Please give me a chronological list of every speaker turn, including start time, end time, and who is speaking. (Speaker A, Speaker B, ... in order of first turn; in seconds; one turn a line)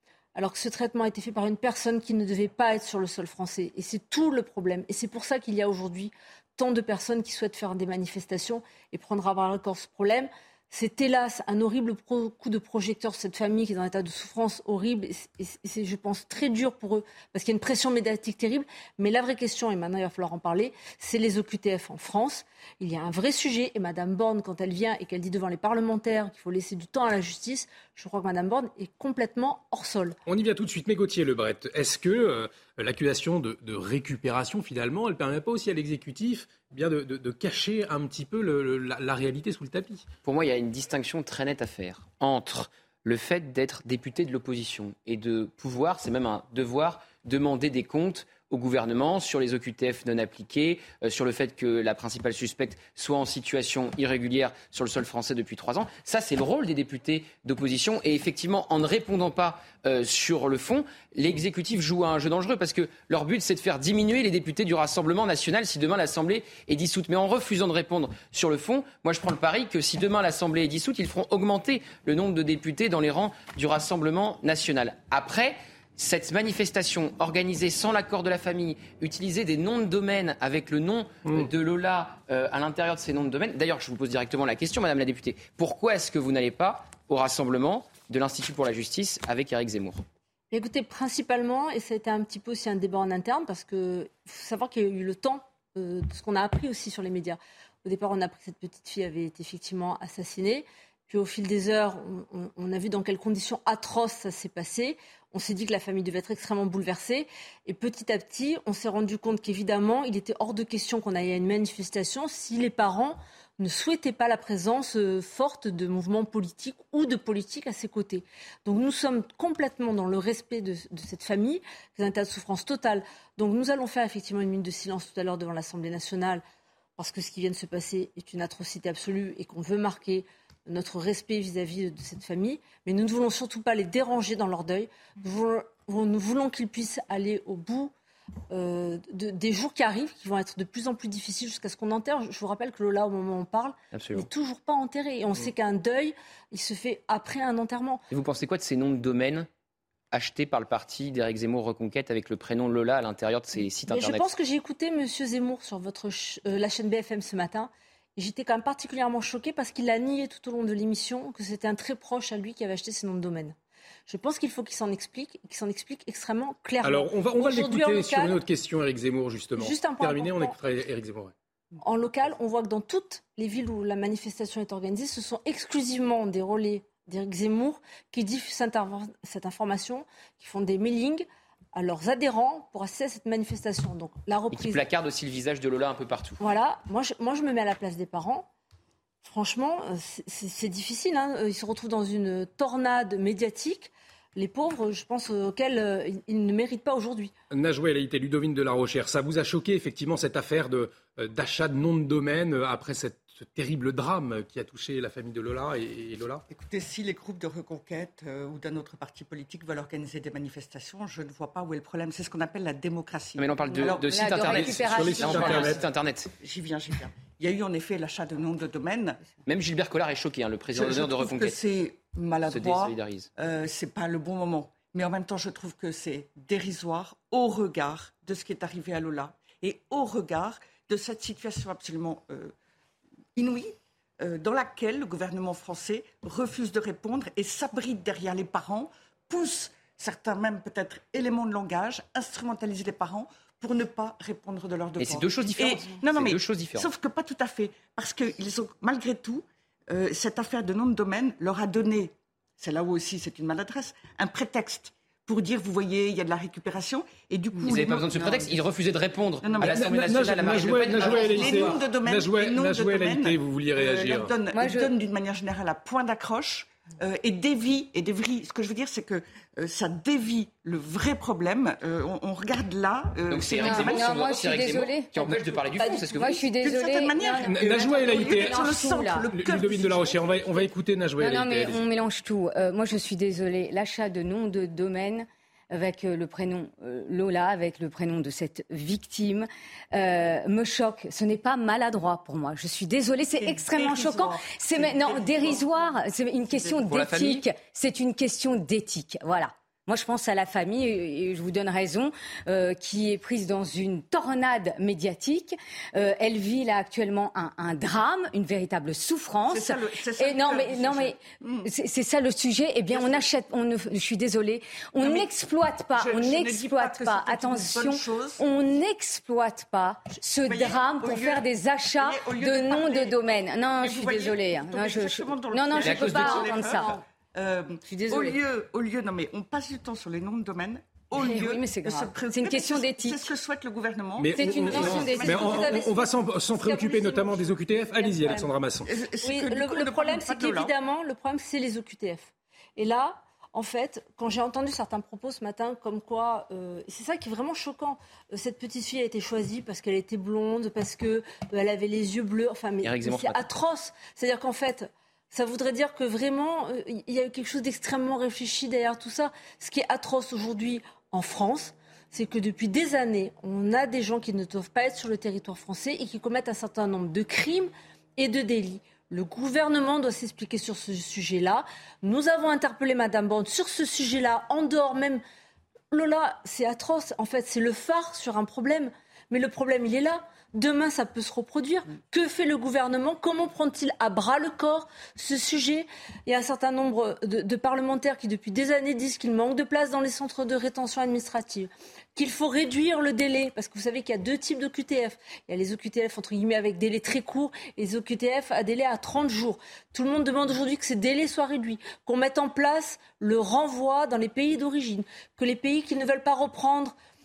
Speaker A: 0.3-30.2
Speaker B: 30.3-40.0
Speaker C: 40.2-90.0
Speaker A: 90.5-126.4
Speaker A: 127.0-137.9
Speaker A: 138.5-148.0
Speaker C: 143.9-144.3
Speaker C: 148.1-149.5
Speaker C: 150.1-154.3
Speaker A: 153.9-163.6
Speaker A: 164.1-168.4
Speaker B: 166.8-171.3
Speaker A: 169.6-170.6
Speaker A: 171.8-184.9
Speaker C: 184.5-186.4
Speaker A: 186.4-188.5
Speaker A: 189.2-197.3
Speaker B: 197.5-206.4
Speaker D: 206.5-214.6
Speaker C: 213.4-216.3
Speaker E: 213.7-215.8
Speaker B: 214.5-215.8
Speaker D: 215.2-215.8
Speaker D: 216.4-219.2
Speaker C: 219.4-221.6
Speaker D: 220.8-232.5
Speaker C: 222.5-223.3
Speaker D: 233.4-258.2
Speaker C: 245.0-246.9
Speaker C: 257.6-261.8
Speaker D: 259.4-274.1
Speaker B: 259.6-264.3
Speaker E: 264.5-264.9
Speaker C: 273.3-276.4
Speaker E: 273.6-279.3
Speaker D: 275.8-280.6
Speaker B: 277.4-278.7
Speaker B: 279.3-281.8
Speaker E: 281.2-327.0
Speaker D: 293.4-295.9
Speaker C: 296.9-297.5
Speaker D: 309.5-311.7
Speaker D: 312.9-313.3
Speaker D: 315.0-315.3
Speaker D: 315.9-318.4
Speaker D: 320.4-323.2
Speaker D: 323.8-335.7
Speaker C: 325.8-326.7
Speaker E: 327.9-328.4
Speaker E: 331.1-333.3
Speaker B: 334.2-338.9
Speaker E: 334.4-335.7
Speaker A: 334.7-338.5
Speaker C: 334.8-335.1
Speaker D: 338.9-340.7
Speaker A: 339.2-375.2
Speaker C: 352.8-353.4
Speaker A: 375.9-406.9